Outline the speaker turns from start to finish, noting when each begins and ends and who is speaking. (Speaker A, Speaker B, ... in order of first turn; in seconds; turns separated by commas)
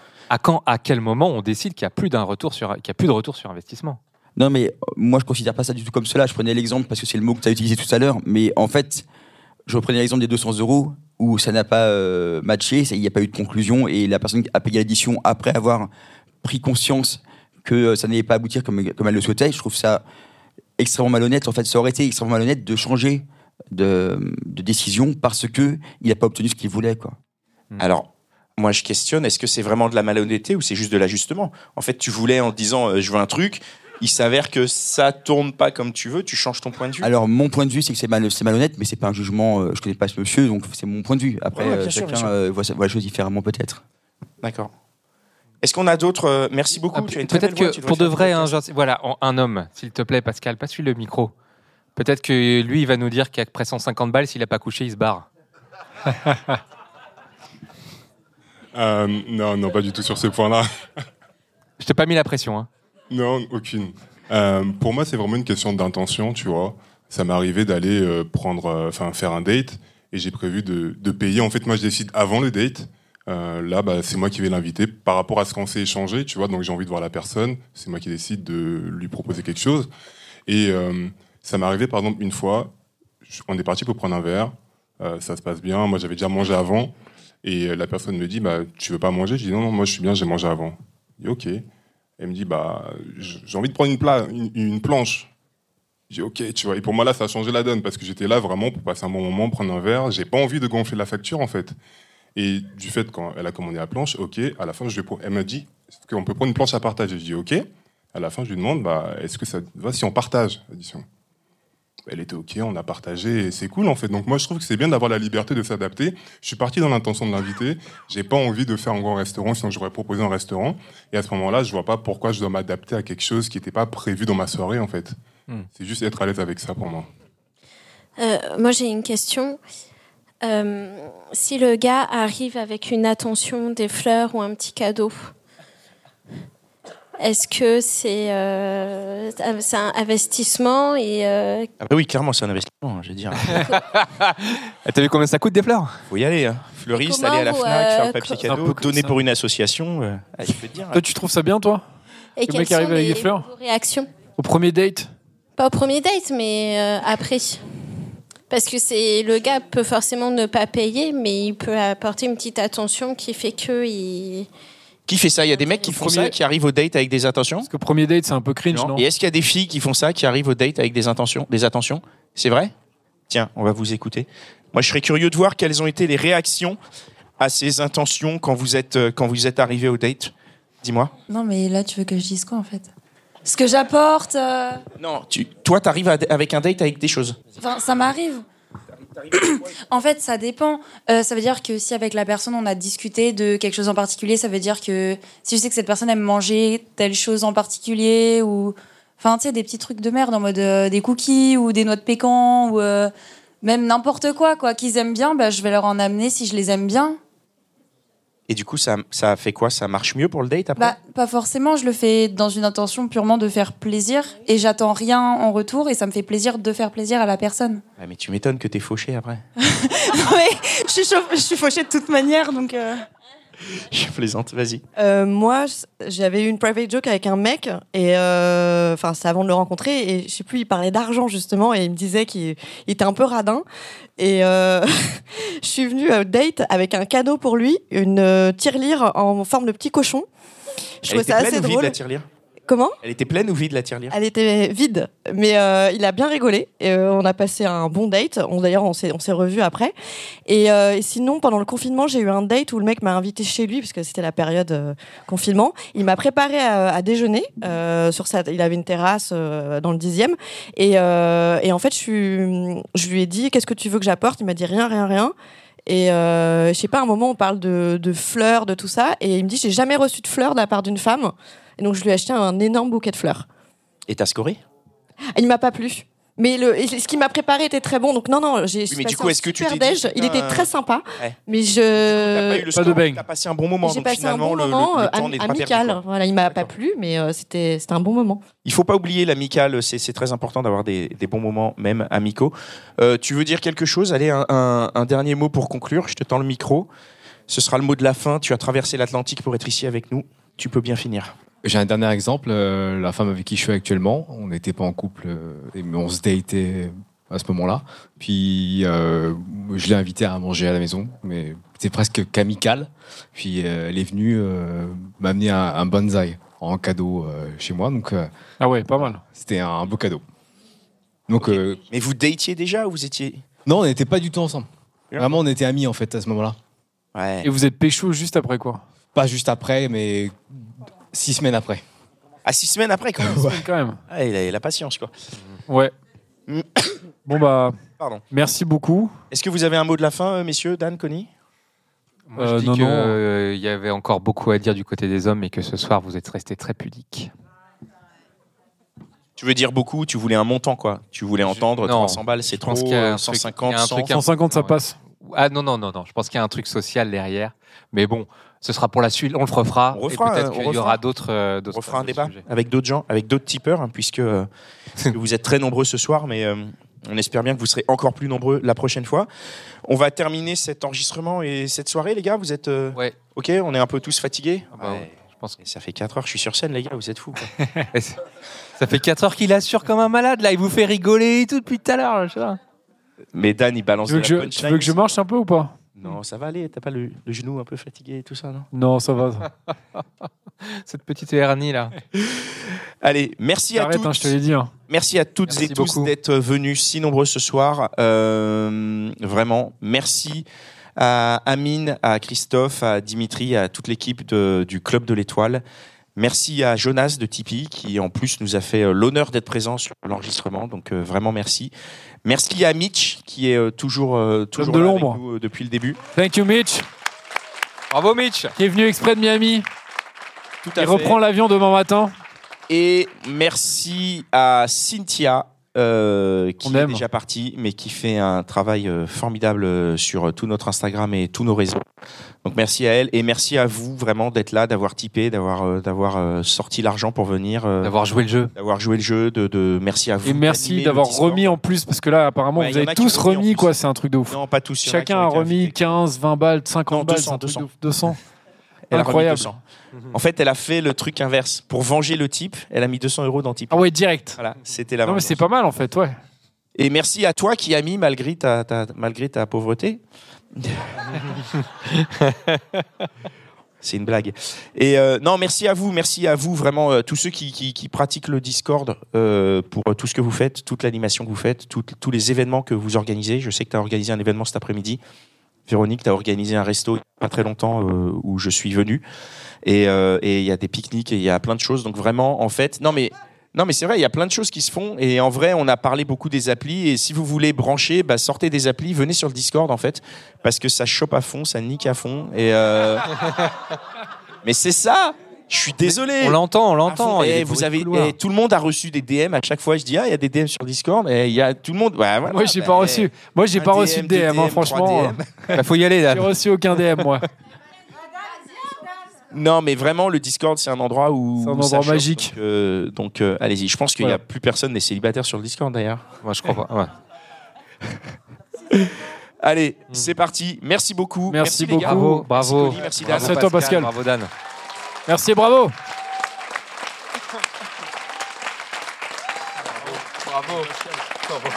Speaker A: 0.3-4.0, Speaker B: 4.4-9.1, Speaker B: 9.7-15.9, Speaker B: 16.4-20.0, Speaker B: 20.8-27.2, Speaker C: 27.8-37.1, Speaker B: 37.0-43.8, Speaker C: 41.5-42.3, Speaker C: 44.4-44.7, Speaker C: 45.6-48.5, Speaker A: 46.9-51.3, Speaker A: 52.0-55.3, Speaker D: 58.7-60.6, Speaker A: 61.8-62.7, Speaker D: 63.1-79.9, Speaker D: 80.5-82.7, Speaker D: 83.2-91.6, Speaker D: 92.2-95.3, Speaker D: 96.1-101.8, Speaker D: 102.3-111.0, Speaker D: 112.1-125.2, Speaker D: 125.8-127.1, Speaker E: 128.2-129.6, Speaker E: 130.4-135.3, Speaker E: 137.2-141.7, Speaker C: 141.8-143.7, Speaker A: 143.5-146.0, Speaker C: 146.1-151.0, Speaker E: 146.9-148.5, Speaker F: 148.5-149.1, Speaker F: 150.9-151.8, Speaker E: 152.4-154.1, Speaker F: 152.5-153.5, Speaker F: 154.4-155.1, Speaker E: 155.6-157.6, Speaker E: 158.5-164.5, Speaker C: 165.1-167.7, Speaker F: 165.9-166.3, Speaker F: 167.7-169.0, Speaker C: 168.7-172.7, Speaker C: 173.3-176.8, Speaker C: 177.4-181.1, Speaker G: 181.3-182.9, Speaker G: 183.4-184.8, Speaker C: 185.0-187.4, Speaker G: 187.6-188.4, Speaker G: 189.3-207.2, Speaker C: 208.5-210.9, Speaker G: 210.8-217.8, Speaker C: 218.0-219.4, Speaker G: 219.6-223.0, Speaker C: 223.9-224.8, Speaker H: 225.0-233.7, Speaker H: 234.2-240.3, Speaker C: 241.0-242.3, Speaker H: 241.1-242.0, Speaker H: 242.7-243.0, Speaker C: 243.0-244.1, Speaker H: 244.1-249.9, Speaker H: 250.5-265.3, Speaker H: 265.9-273.5, Speaker C: 274.1-274.6, Speaker H: 275.4-282.7, Speaker C: 278.9-281.4, Speaker C: 281.9-286.7, Speaker F: 282.7-283.2, Speaker H: 283.8-288.4, Speaker C: 288.6-296.9, Speaker C: 297.5-301.3, Speaker I: 301.6-318.3, Speaker F: 318.6-319.2, Speaker I: 319.0-320.2, Speaker I: 321.3-321.8, Speaker C: 321.4-323.4, Speaker I: 323.7-326.6, Speaker C: 327.1-327.5, Speaker F: 327.4-328.8, Speaker I: 329.1-331.8, Speaker C: 332.4-335.1, Speaker I: 333.2-333.6, Speaker F: 333.2-334.0, Speaker F: 335.7-335.9, Speaker C: 336.5-336.8, Speaker F: 337.3-337.8, Speaker F: 338.3-339.1, Speaker C: 339.3-341.3, Speaker A: 342.3-347.3, Speaker F: 342.4-343.2, Speaker C: 349.4-354.2, Speaker A: 351.4-362.4, Speaker F: 354.1-355.0, Speaker C: 359.9-361.0, Speaker C: 361.7-364.5, Speaker C: 365.1-369.3, Speaker C: 369.9-377.5, Speaker A: 374.7-375.6, Speaker A: 377.9-378.2, Speaker A: 378.8-382.6, Speaker C: 383.4-385.0, Speaker F: 384.1-385.8, Speaker C: 386.0-388.7, Speaker F: 388.7-389.5, Speaker A: 390.6-391.9, Speaker C: 393.0-394.4, Speaker F: 393.8-394.7, Speaker C: 394.9-400.5, Speaker A: 395.5-396.1, Speaker C: 401.0-405.6, Speaker C: 406.2-411.7, Speaker C: 412.2-416.0, Speaker F: 414.6-415.2, Speaker F: 416.1-416.9, Speaker A: 417.9-418.5, Speaker F: 418.6-419.7, Speaker C: 420.6-421.2, Speaker F: 420.8-422.1, Speaker C: 422.7-431.9, Speaker F: 426.6-427.1, Speaker C: 432.4-437.9, Speaker A: 437.8-438.5, Speaker C: 438.6-441.6, Speaker F: 440.2-448.2, Speaker C: 442.6-443.8, Speaker C: 444.3-446.0, Speaker C: 446.9-447.7, Speaker C: 448.9-449.6, Speaker F: 448.9-449.5, Speaker C: 450.1-453.8, Speaker F: 453.7-454.4, Speaker C: 454.4-455.4, Speaker F: 455.1-456.2, Speaker C: 456.8-460.0, Speaker C: 460.6-461.2, Speaker C: 463.8-475.0, Speaker C: 475.7-479.0, Speaker C: 479.6-493.1, Speaker C: 494.4-505.2, Speaker A: 495.8-498.1, Speaker F: 502.3-505.6, Speaker A: 505.5-507.0, Speaker F: 506.1-507.3, Speaker C: 509.3-516.1, Speaker F: 511.4-512.4, Speaker A: 516.2-516.9, Speaker C: 518.7-523.6, Speaker F: 521.3-522.3, Speaker A: 521.6-524.3, Speaker F: 523.0-523.9, Speaker F: 525.1-525.7